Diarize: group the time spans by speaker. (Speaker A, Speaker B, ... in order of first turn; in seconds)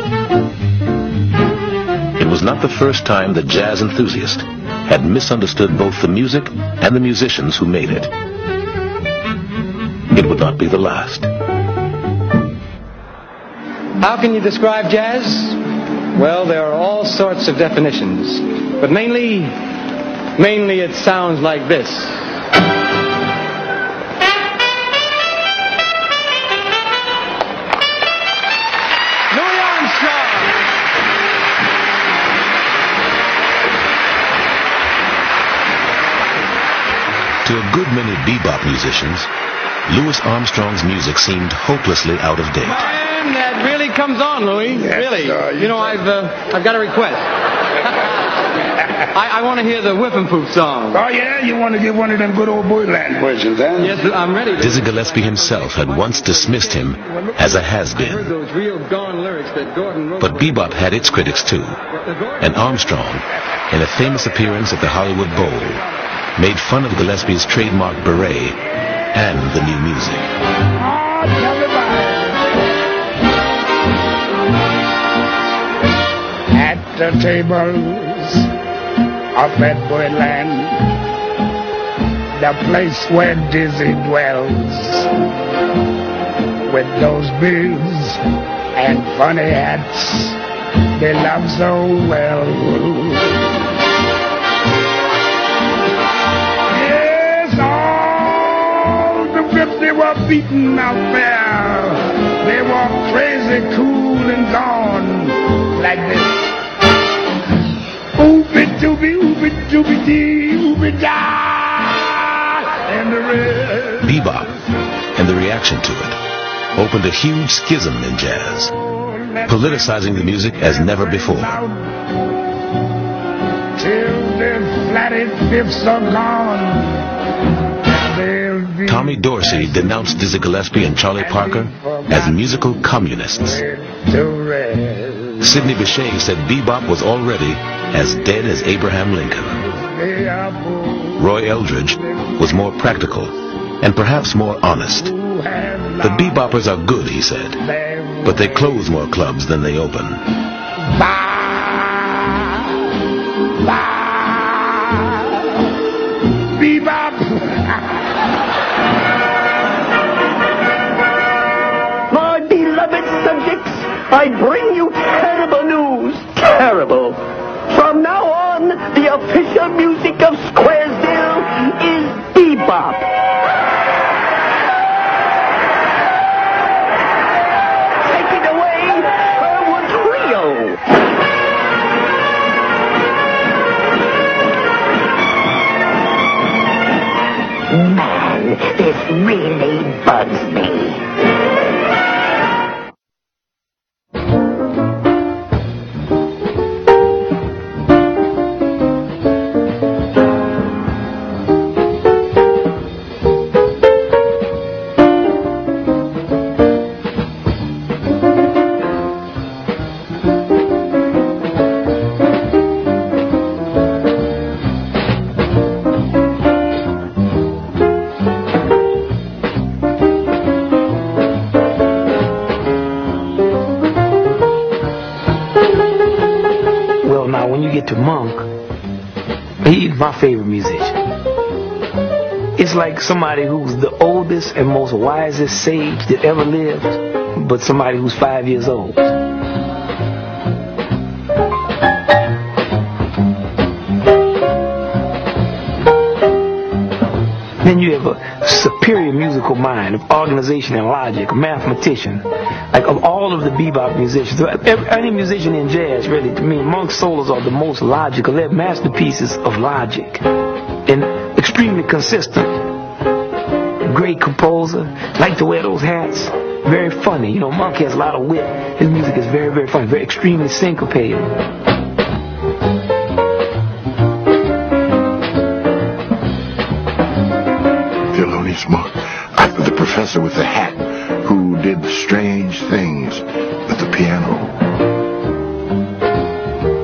Speaker A: 2.2-8.1, 10.1-11.3, 37.4-39.3, 39.9-42.8, 54.6-58.3, 60.2-61.8, 62.4-65.8, 66.4-68.6, 69.1-70.3, 114.0-114.6, 115.2-116.2, 116.7-118.7, 119.5-121.6, 128.9-133.6, 135.4-139.7, 141.2-145.1, 146.0-147.6, 148.2-150.2
Speaker B: 14.0-15.6, 16.1-19.6, 20.4-22.2, 29.3-30.5, 42.6-47.3, 49.1-51.0, 53.8-55.0, 58.0-60.5, 62.0-62.4
Speaker C: 50.9-54.0, 70.8-72.3, 76.5-78.5, 79.3-80.9, 82.4-85.1, 86.7-88.2, 88.8-90.4, 91.0-93.4, 96.7-106.5, 108.2-114.4, 118.9-121.9, 123.8-127.0, 127.9-130.1, 131.2-132.6, 133.4-135.5, 139.7-141.3, 142.2-142.6, 145.1-146.4, 147.6-148.9, 150.9-152.7, 153.6-155.3, 156.6-157.8
Speaker D: 163.0-163.5, 164.2-167.1, 167.9-171.3, 171.8-173.0, 179.9-180.6, 189.1-190.8
Speaker E: 227.0-228.5, 229.6-230.9, 232.6-239.1, 247.6-260.2, 260.9-262.6, 263.9-271.3
Speaker F: 278.1-284.5